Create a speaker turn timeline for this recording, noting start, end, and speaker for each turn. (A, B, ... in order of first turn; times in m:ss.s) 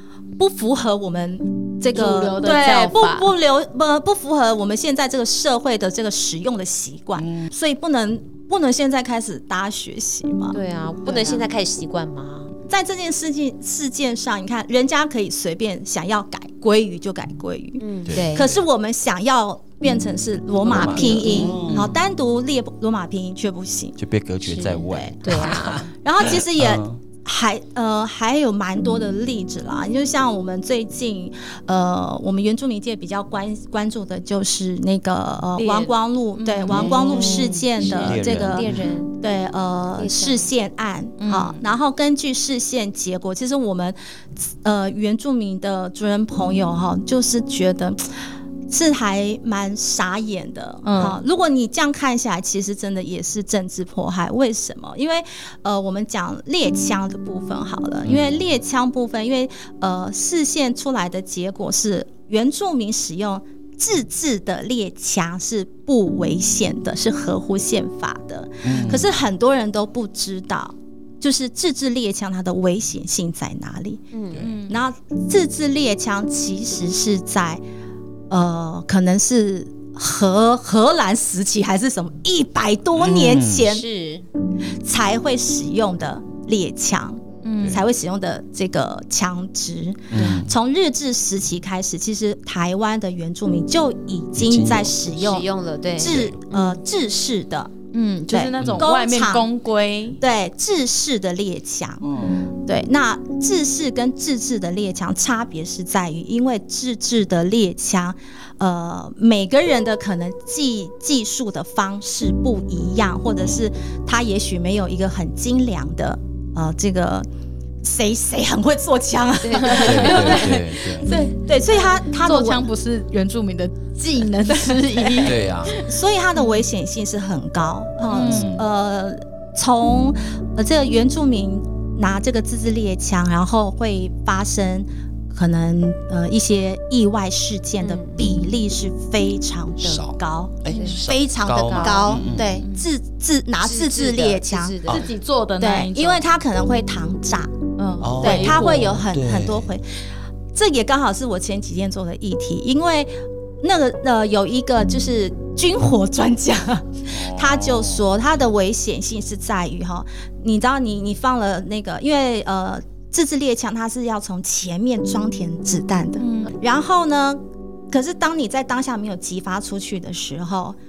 0:00.4-0:10.6 A
0:01.9-0:03.3 B
0:07.2-0:07.5 C
0:10.5-0:12.5 D
0:11.0-0:11.4 B
0:12.7-0:24.0 A
0:17.8-0:18.5 D
0:18.0-0:18.5 C
0:20.6-0:22.0 C
0:20.7-0:21.8 D
0:24.0-0:27.0 C
0:24.5-0:25.9 D
0:24.8-0:38.6 A
0:35.6-0:35.9 D
0:36.4-0:37.1 B
0:36.7-0:38.8 C
0:36.9-0:39.1 D
0:39.2-0:48.0 A
0:40.0-0:40.5 D
0:41.2-0:41.6 B
0:48.7-1:14.0 A
0:50.8-0:51.2 B
0:58.0-0:58.3 C
1:08.6-1:09.1 C
1:14.1-1:14.4 D
1:14.4-1:14.8 B
1:14.7-1:17.6 A
1:18.3-1:23.8 A
1:23.0-1:23.7 C
1:23.6-1:24.2 D
1:24.8-1:37.7 A
1:27.4-1:27.8 B
1:30.1-1:30.5 C
1:34.4-1:35.0 C
1:35.1-1:36.3 D
1:36.0-1:36.4 C
1:37.9-1:40.2 B
1:38.3-1:39.5 A
1:38.6-1:38.8 C
1:40.2-1:42.0 A
1:42.0-1:42.5 C
1:42.6-1:57.3 A
1:57.8-2:02.7 A
1:59.4-2:00.0 D
1:59.6-2:00.3 B
1:59.8-2:01.1 C
2:01.1-2:05.8 B
2:04.5-2:24.8 A
2:05.2-2:05.7 C
2:06.4-2:06.6 B
2:08.1-2:08.6 B
2:08.2-2:08.6 C
2:17.8-2:18.3 D
2:19.8-2:22.6 C
2:20.7-2:21.0 D
2:21.5-2:22.3 D
2:23.6-2:25.0 D
2:24.9-2:26.2 B
2:25.6-2:27.5 A
2:27.8-2:29.0 B
2:28.0-2:29.7 C
2:28.2-2:29.9 A
2:30.5-2:50.8 A
2:37.1-2:38.0 C
2:46.2-2:46.5 B